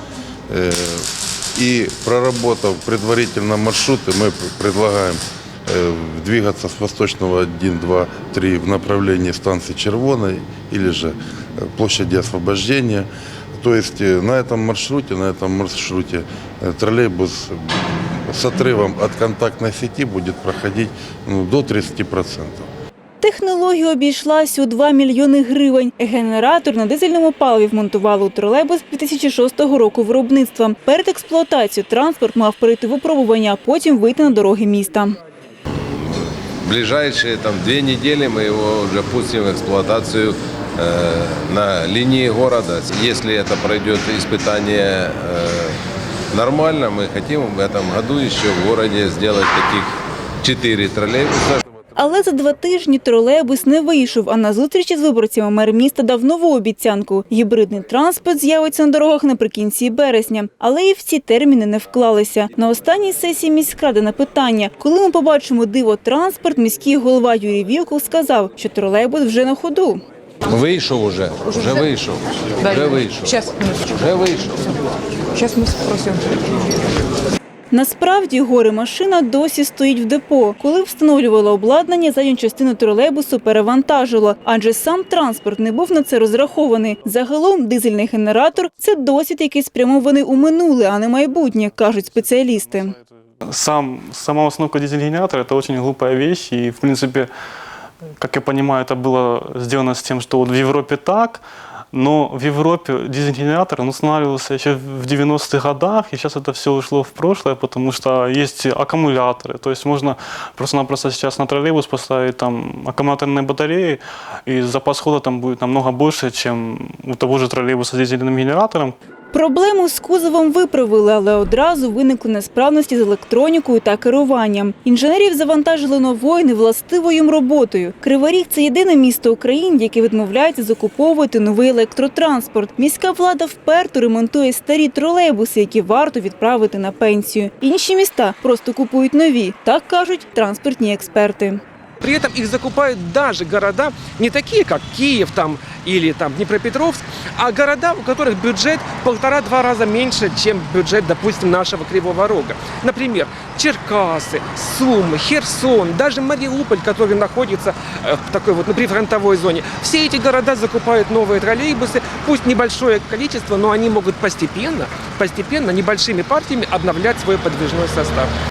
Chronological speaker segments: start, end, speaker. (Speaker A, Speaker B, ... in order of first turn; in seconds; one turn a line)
Speaker A: 0.5-22.7
Speaker B: 23.2-35.2
Speaker C: 35.9-45.8
Speaker C: 46.3-51.6
Speaker B: 52.0-70.0
Speaker C: 70.5-74.8
Speaker B: 77.7-93.0
Speaker D: 93.5-97.3
Speaker D: 98.2-101.4
Speaker D: 101.9-119.0
Speaker B: 119.3-141.6
Speaker E: 142.0-168.3